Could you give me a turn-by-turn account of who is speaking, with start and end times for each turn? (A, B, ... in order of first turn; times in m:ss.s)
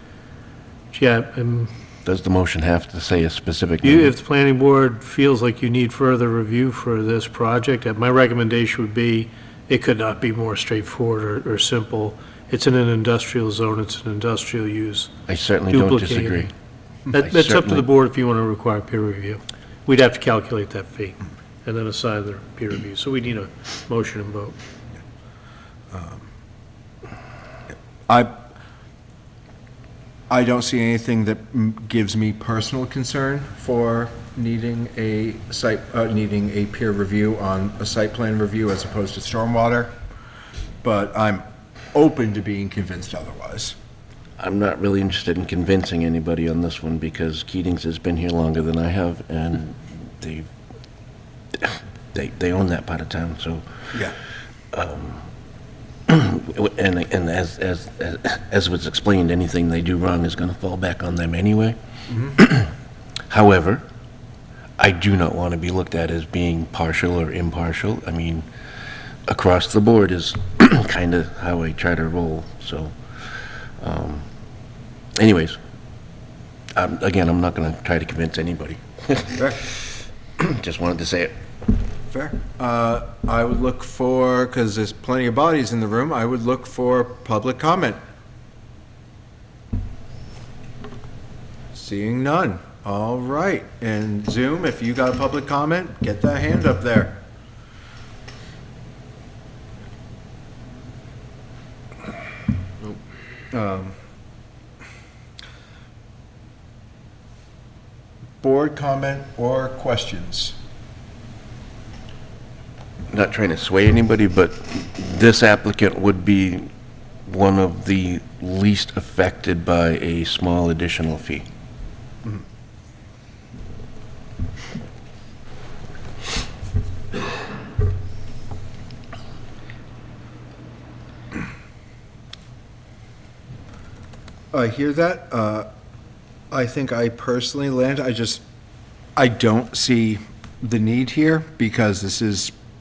0:00.9-0:01.7 A
0:02.0-0:04.1 B
0:03.8-0:16.5 A
0:15.3-0:16.5 B
0:17.1-0:24.5 A
0:17.1-0:17.8 B
0:25.9-0:26.2 C
0:30.3-0:39.9 C
0:40.8-0:43.8 C
0:44.4-0:50.5 B
0:51.6-0:53.6 B
0:54.7-0:55.2 B
0:56.1-1:01.8 B
1:02.1-1:02.4 C
1:02.3-1:02.7 B
1:03.3-1:03.8 B
1:04.8-1:08.4 B
1:09.3-1:14.2 B
1:15.2-1:15.6 B
1:16.8-1:19.8 B
1:19.3-1:19.6 C
1:20.4-1:21.3 B
1:22.1-1:28.0 C
1:31.7-1:37.2 C
1:43.5-1:44.0 C
1:48.4-1:50.6 C
1:53.1-1:56.7 B
1:57.2-2:01.4 B
2:14.5-2:15.7 C
2:16.5-2:18.4 C
2:19.2-2:22.5 C